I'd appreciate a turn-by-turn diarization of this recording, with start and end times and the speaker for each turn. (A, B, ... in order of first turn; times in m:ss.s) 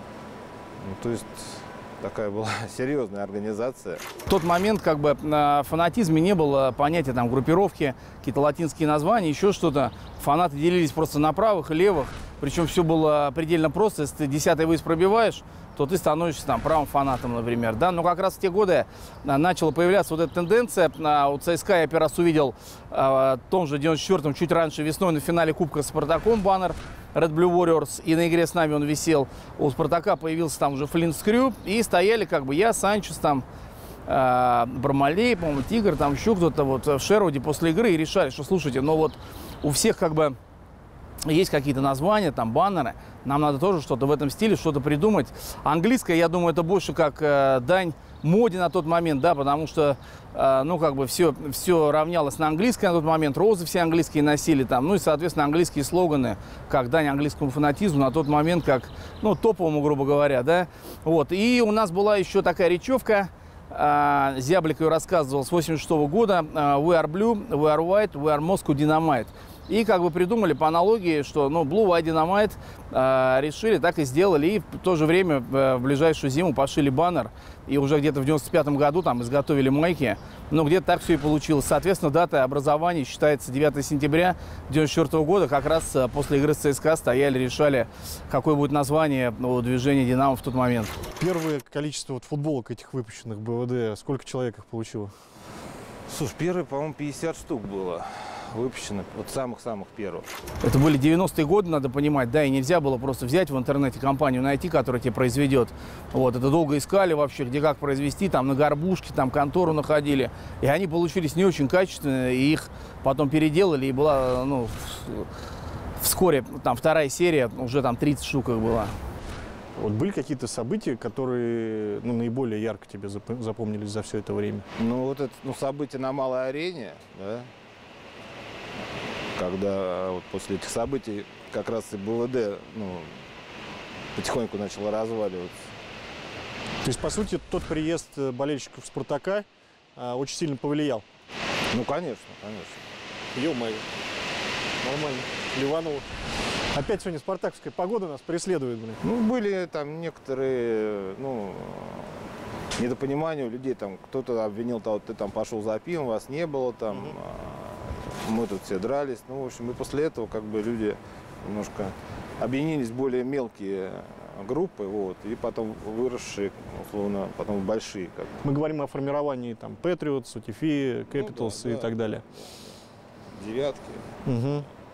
0:00.8-0:04.0 A
0:04.3-0:33.4 B
0:34.1-0:40.4 B
0:41.2-1:31.0 B
1:31.2-1:35.1 C
1:36.1-1:40.3 A
1:40.6-1:55.3 B
1:56.0-1:58.9 B
1:59.8-2:04.6 C
2:04.8-2:07.5 A
2:09.4-2:13.2 A
2:14.2-2:15.7 A
2:16.8-2:21.0 C
2:21.7-2:22.8 A
2:23.3-2:23.8 C
2:24.8-2:26.1 C
2:26.7-2:29.0 C
2:29.0-2:32.2 A
2:32.8-2:48.4 A
2:48.4-2:52.2 C
2:51.1-2:52.7 A
2:53.3-2:54.2 A
2:54.2-2:54.7 C